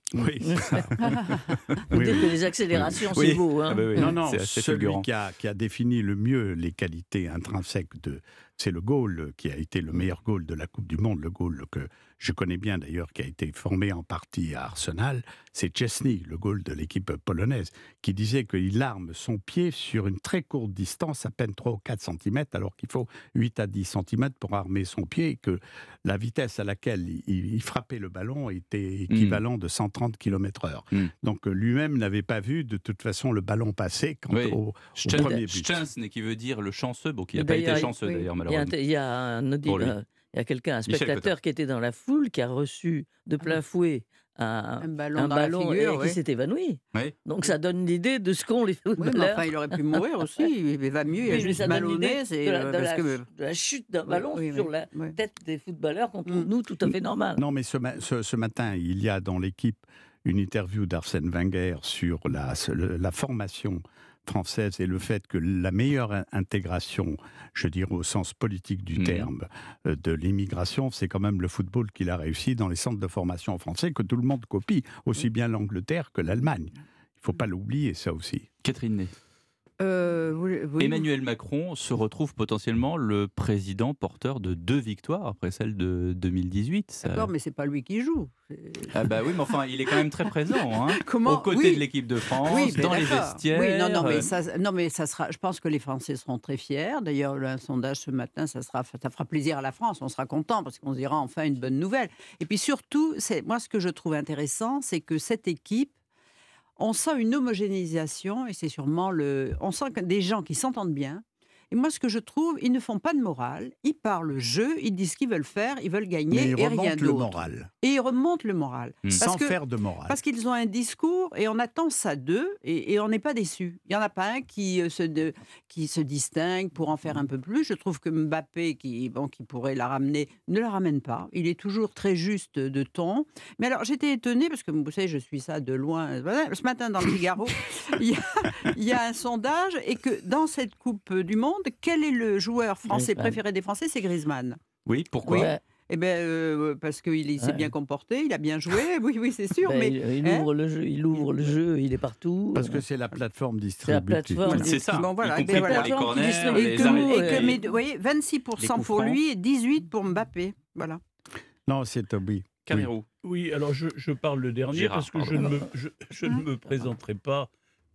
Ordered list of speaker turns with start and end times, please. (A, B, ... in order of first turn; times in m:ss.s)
0:00.1-0:03.4 A
0:00.4-0:00.8 B
0:01.5-0:01.8 C
0:01.9-0:04.1 B
0:03.2-0:05.0 C
0:03.9-0:35.8 A
0:29.1-0:29.4 C
0:34.3-0:38.7 C
0:37.4-0:50.5 B
0:39.7-0:39.9 C
0:40.9-0:41.3 C
0:44.8-0:46.2 D
0:49.0-0:53.2 D
0:51.2-0:57.4 B
0:54.1-0:55.2 D
0:57.4-1:18.5 A
1:09.0-1:09.3 C
1:18.6-1:19.1 C
1:19.8-1:21.1 D
1:20.8-1:27.3 C
1:27.1-1:29.4 D
1:28.9-1:34.3 C
1:30.8-1:45.9 D
1:46.8-2:24.6 D
1:56.3-1:57.7 A
1:59.2-2:00.2 A
2:22.9-2:23.4 B
2:24.9-2:25.5 C
2:25.2-2:30.5 D
2:25.3-2:25.6 B
2:27.4-2:27.7 B
2:29.7-2:32.8 B
2:32.6-2:34.7 A
2:33.9-2:37.6 B
2:34.5-2:37.6 C
2:34.5-2:41.0 D
2:38.6-2:39.2 C
2:41.7-2:42.9 A
2:42.7-2:43.1 C
2:43.2-2:47.5 E
2:44.7-2:45.5 C